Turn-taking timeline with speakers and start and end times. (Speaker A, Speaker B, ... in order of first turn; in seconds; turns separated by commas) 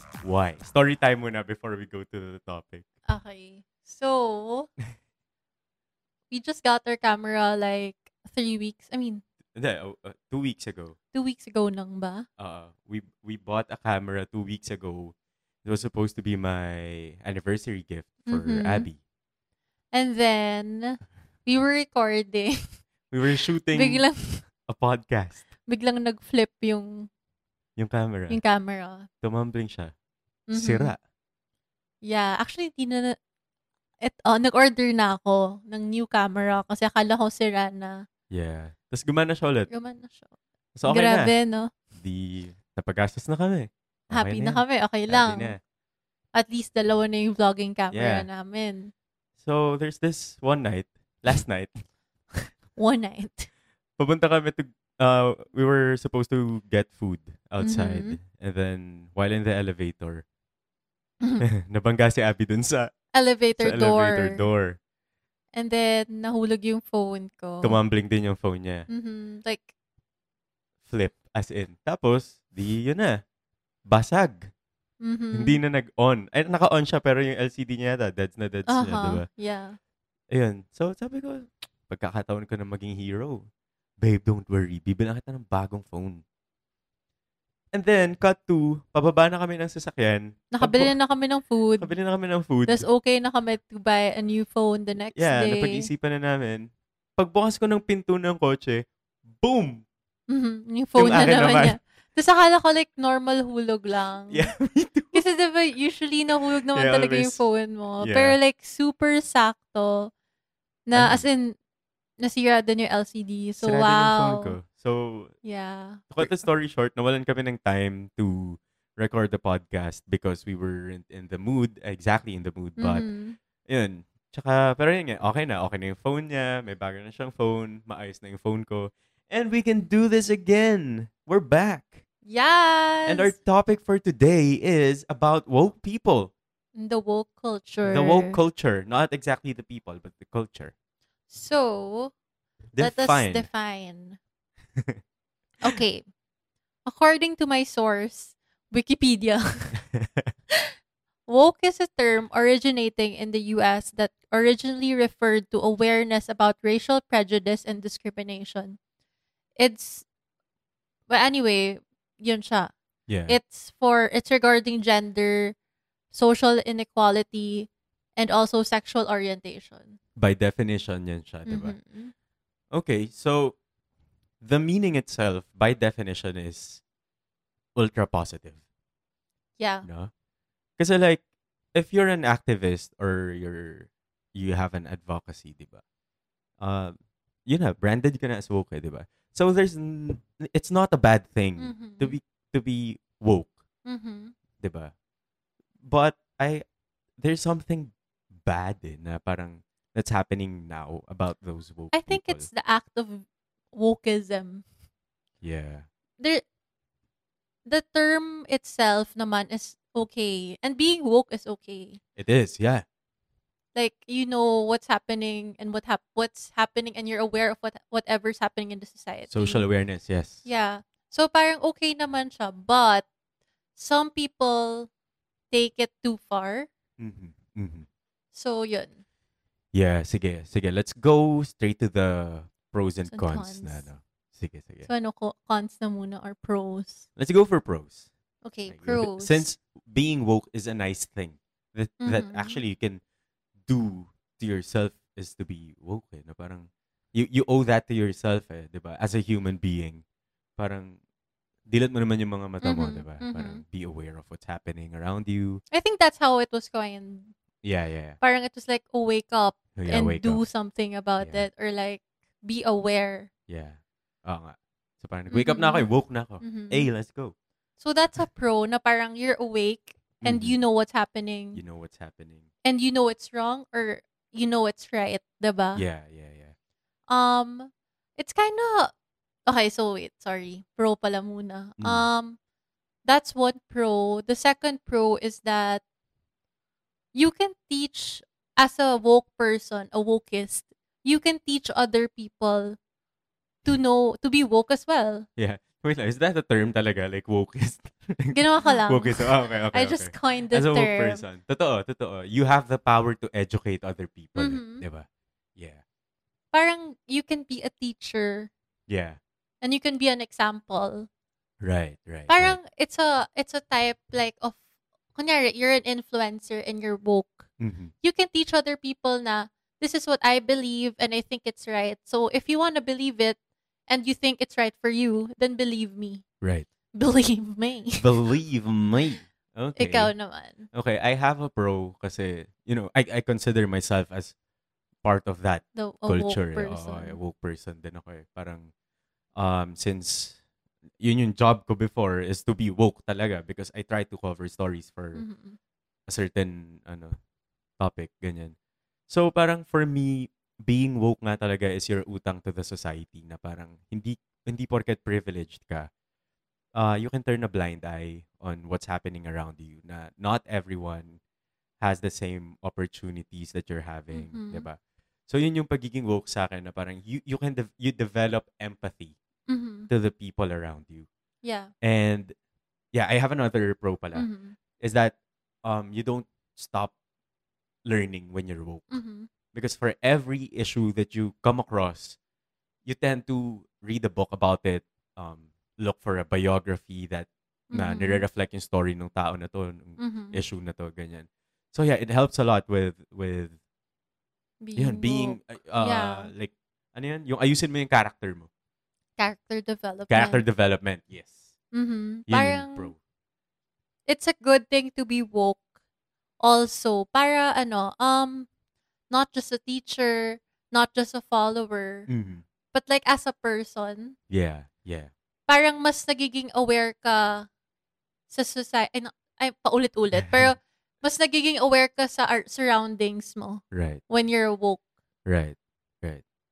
Speaker A: 0.2-2.9, Speaker B: 3.1-4.7, Speaker B: 6.3-9.2, Speaker A: 9.6-10.9, Speaker B: 11.1-12.2, Speaker A: 12.4-15.1, Speaker A: 15.6-19.0, Speaker B: 18.3-18.9, Speaker B: 19.9-22.6, Speaker A: 23.1-24.0, Speaker B: 23.7-24.4, Speaker A: 24.7-25.4, Speaker B: 25.7-27.1, Speaker A: 27.8-28.4, Speaker B: 28.3-29.1, Speaker A: 29.2-29.9, Speaker B: 30.5-30.9, Speaker A: 30.5-31.0, Speaker B: 32.0-33.1, Speaker B: 34.0-38.0, Speaker A: 38.3-39.7, Speaker B: 39.7-40.3, Speaker A: 40.7-41.3, Speaker B: 40.8-41.7, Speaker A: 41.9-45.6, Speaker B: 44.1-45.6, Speaker B: 46.3-48.9, Speaker A: 47.9-48.3, Speaker A: 49.4-51.7, Speaker B: 52.8-53.5, Speaker A: 54.0-60.2, Speaker B: 57.6-58.2, Speaker A: 61.4-62.9, Speaker B: 63.1-64.4, Speaker A: 63.6-64.8, Speaker B: 65.5-67.8, Speaker A: 67.6-68.9, Speaker B: 68.9-69.7, Speaker A: 70.9-73.2, Speaker A: 73.9-74.5, Speaker B: 75.0-75.6, Speaker A: 75.3-79.2, Speaker B: 78.7-79.8, Speaker A: 80.3-83.5, Speaker A: 84.0-86.2, Speaker A: 87.7-90.9, Speaker B: 90.5-91.9, Speaker A: 91.8-92.8, Speaker B: 92.7-95.9, Speaker A: 95.1-98.8, Speaker A: 99.4-99.8, Speaker B: 100.3-104.5, Speaker A: 101.0-101.8, Speaker A: 104.3-105.2, Speaker B: 105.1-110.1, Speaker A: 106.7-107.4, Speaker A: 108.0-108.4, Speaker B: 110.9-111.6, Speaker A: 110.9-111.2, Speaker B: 112.2-114.5, Speaker A: 113.6-115.3, Speaker B: 115.4-116.4, Speaker A: 116.1-123.0, Speaker B: 122.8-123.3, Speaker A: 123.7-132.0, Speaker B: 132.2-133.3, Speaker A: 133.1-136.3, Speaker B: 136.8-138.4, Speaker A: 137.8-140.7, Speaker B: 141.3-142.1, Speaker A: 142.7-143.5, Speaker B: 142.8-144.2, Speaker B: 145.6-146.0, Speaker B: 146.8-149.8, Speaker A: 149.8-150.3, Speaker B: 151.3-158.8, Speaker B: 159.6-160.1, Speaker B: 161.1-162.7, Speaker A: 163.1-163.4, Speaker B: 163.3-165.5, Speaker B: 166.1-170.0, Speaker A: 170.2-171.7, Speaker B: 171.5-172.1, Speaker A: 172.7-173.6, Speaker A: 174.4-176.8, Speaker A: 177.7-178.6, Speaker B: 179.6-179.9, Speaker A: 179.8-180.1, Speaker A: 180.8-181.2, Speaker A: 181.7-185.8, Speaker A: 186.6-186.9, Speaker A: 187.4-193.6, Speaker B: 191.6-192.2, Speaker B: 193.8-194.3, Speaker A: 194.6-194.9, Speaker A: 195.8-196.6, Speaker A: 197.2-202.5, Speaker B: 201.9-204.6, Speaker A: 205.4-205.8, Speaker B: 207.7-212.0, Speaker A: 212.2-212.8, Speaker B: 213.7-219.7, Speaker A: 219.3-220.4, Speaker B: 220.4-223.1, Speaker B: 223.8-224.9, Speaker B: 225.5-226.7, Speaker A: 227.0-227.8, Speaker B: 228.3-229.0, Speaker A: 229.7-234.9, Speaker B: 233.1-233.9, Speaker B: 234.8-237.1, Speaker A: 237.2-238.1, Speaker B: 238.4-239.4, Speaker A: 238.7-243.0, Speaker B: 242.0-242.6, Speaker A: 243.7-250.0, Speaker A: 250.6-251.0, Speaker A: 251.7-255.6, Speaker B: 252.6-253.6, Speaker B: 255.7-257.3, Speaker A: 257.6-258.2, Speaker B: 258.2-263.3, Speaker A: 259.8-260.4, Speaker A: 263.5-267.3, Speaker B: 265.3-265.9, Speaker B: 266.4-266.9, Speaker B: 267.8-271.6, Speaker A: 270.2-270.6, Speaker A: 271.5-272.4, Speaker B: 272.6-275.8, Speaker A: 275.8-276.5, Speaker B: 277.1-278.9, Speaker B: 279.5-282.4, Speaker A: 281.8-282.1, Speaker B: 283.0-285.8, Speaker B: 287.1-292.8, Speaker B: 293.6-295.2, Speaker A: 295.4-305.1, Speaker B: 298.3-301.2, Speaker B: 304.4-304.8, Speaker A: 305.6-305.8, Speaker B: 306.5-308.5, Speaker A: 308.9-309.2, Speaker B: 309.6-311.1, Speaker A: 311.6-312.6, Speaker B: 312.3-314.6, Speaker B: 315.1-317.5, Speaker A: 317.6-317.9, Speaker B: 318.0-326.2, Speaker A: 326.4-326.7, Speaker B: 326.9-328.2, Speaker A: 328.0-330.1, Speaker B: 329.8-330.7, Speaker A: 330.7-334.3, Speaker A: 335.0-338.7, Speaker B: 335.7-337.2, Speaker A: 339.4-340.4, Speaker A: 341.0-345.2, Speaker B: 345.1-345.6, Speaker A: 346.1-347.1, Speaker A: 347.8-348.5, Speaker A: 349.1-355.9, Speaker A: 356.7-361.2, Speaker A: 361.8-369.1, Speaker B: 364.1-364.7, Speaker B: 369.5-369.9, Speaker A: 369.9-371.1, Speaker B: 371.4-371.7, Speaker A: 371.8-372.3, Speaker A: 372.9-374.3, Speaker B: 374.1-374.6, Speaker A: 374.8-376.9, Speaker A: 377.9-378.9, Speaker B: 378.9-379.3, Speaker A: 379.5-382.2, Speaker A: 382.9-393.6, Speaker B: 387.7-388.2, Speaker B: 390.0-390.4, Speaker B: 394.6-396.3, Speaker A: 394.8-398.5, Speaker B: 399.2-400.4, Speaker A: 400.1-401.4, Speaker B: 401.7-402.9, Speaker A: 402.3-403.0, Speaker B: 404.1-405.6, Speaker B: 406.4-408.5, Speaker B: 409.1-412.1, Speaker A: 412.1-412.4, Speaker B: 412.7-414.1, Speaker A: 414.3-415.1, Speaker B: 415.5-417.5, Speaker B: 418.3-424.8, Speaker A: 423.7-424.0, Speaker A: 425.2-426.2